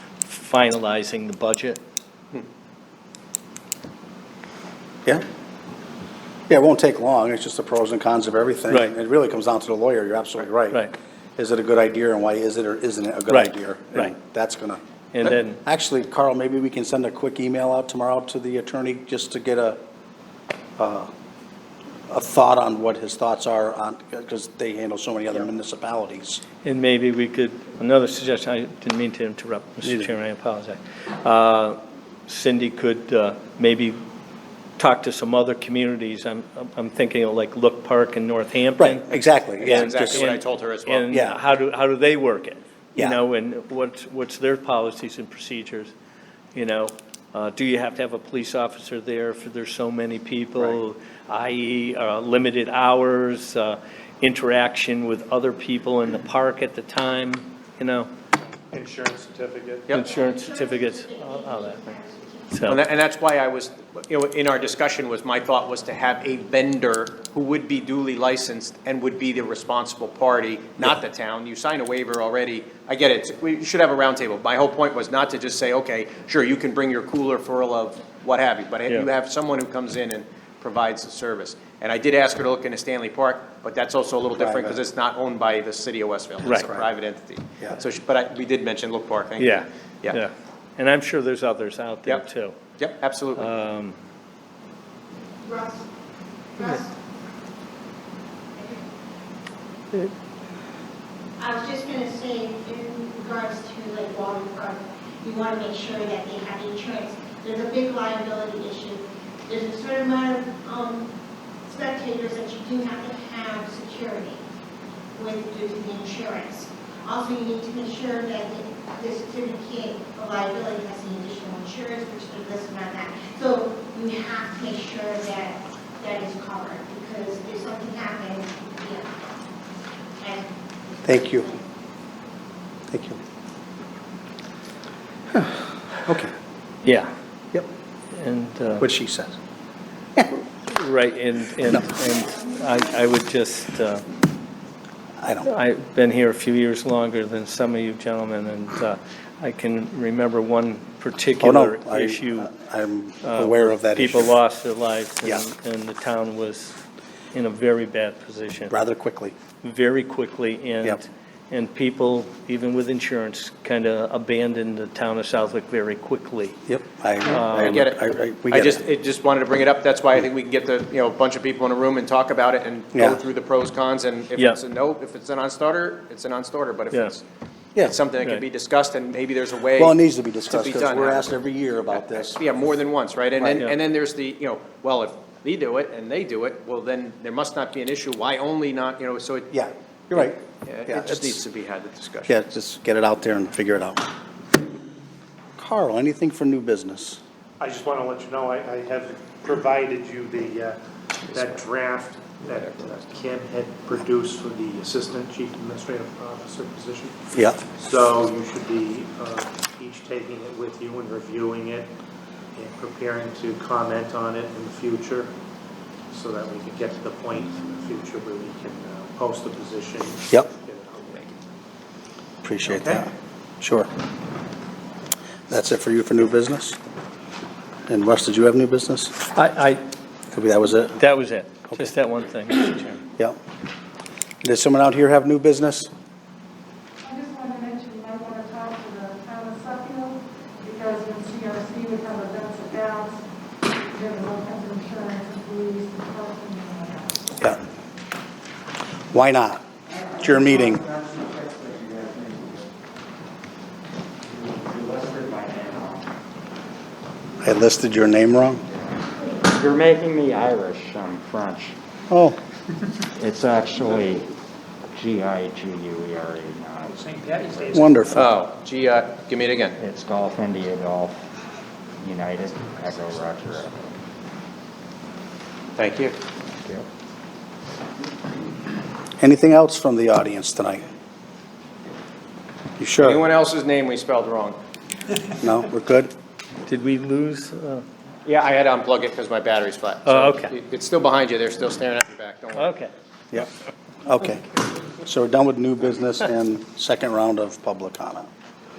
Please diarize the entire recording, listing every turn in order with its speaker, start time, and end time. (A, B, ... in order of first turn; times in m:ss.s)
0:00.2-0:01.8 A
0:06.5-0:14.8 B
0:13.3-0:14.1 A
0:15.1-0:15.6 A
0:15.5-0:19.8 B
0:20.8-0:21.1 B
0:22.1-0:26.4 B
0:26.6-0:34.0 A
0:34.8-0:39.0 A
0:38.8-0:40.3 B
0:39.6-0:41.1 C
0:39.6-0:45.9 A
0:41.1-0:41.4 B
0:43.0-0:43.2 B
0:46.6-0:58.1 A
0:58.7-0:59.9 D
0:59.9-1:01.8 A
0:59.9-1:02.8 E
1:02.5-1:02.8 A
1:02.7-1:30.2 C
1:24.4-1:24.8 B
1:26.4-1:26.7 A
1:29.4-1:32.6 A
1:32.8-1:33.5 C
1:33.4-1:34.0 A
1:35.4-1:35.9 E
1:36.6-1:36.9 E
1:38.6-1:38.8 E
1:41.4-1:51.1 E
1:51.6-1:54.4 E
1:55.1-2:09.2 E
2:10.2-2:11.6 E
2:11.0-2:11.4 B
2:12.9-2:13.2 B
2:15.3-2:16.3 B
2:16.8-2:17.1 A
2:18.1-2:18.9 A
2:18.8-2:19.4 B
2:20.7-2:24.0 A
2:25.2-2:25.5 B
2:25.4-2:32.5 A
2:31.4-2:34.3 B
2:33.2-2:36.8 A
2:37.3-2:38.8 A
2:38.7-2:39.4 B
2:39.6-2:46.6 A
2:46.7-2:48.8 B
2:47.3-2:47.8 A
2:47.4-2:57.2 C
2:52.9-2:53.2 B
2:57.8-3:00.0 C
2:59.8-3:02.4 B
3:00.5-3:01.4 C
3:01.9-3:09.5 C
3:03.4-3:03.7 B
3:09.5-3:11.4 B
3:10.1-3:12.3 C
3:12.3-3:14.0 B
3:15.6-3:17.2 B
3:17.6-3:20.8 D
3:21.3-3:21.6 C
3:21.3-3:27.2 D
3:22.6-3:23.2 C
3:27.3-3:27.6 B
3:27.7-3:31.9 D
3:32.6-3:35.3 D
3:36.1-3:41.4 D
3:42.4-3:43.1 B
3:42.7-3:43.1 D
3:43.6-3:43.9 B
3:45.5-3:46.8 B
3:47.9-3:49.2 B
3:49.3-3:49.8 A
3:50.3-3:51.0 B
3:51.0-3:53.0 A
3:54.4-3:55.9 B
3:57.1-4:03.2 F
4:03.9-4:07.2 F
4:09.1-4:09.6 B
4:10.2-4:10.8 B
4:10.2-4:12.6 G
4:14.3-4:16.1 G
4:17.4-4:18.6 B
4:19.4-4:21.8 G
4:22.1-4:22.4 B
4:23.2-4:24.3 G
4:24.9-4:27.6 G
4:26.9-4:28.1 D
4:27.7-4:28.4 B
4:28.1-4:29.8 C
4:29.8-4:31.3 G
4:32.0-4:34.0 G
4:35.8-4:36.2 C
4:39.2-4:40.8 B
4:42.8-4:43.2 B
4:43.0-4:44.6 C
4:45.4-4:46.1 B
4:46.7-4:47.8 A
4:48.2-4:52.7 C
4:50.1-4:50.5 A
4:52.5-4:52.9 A
4:54.1-4:58.3 B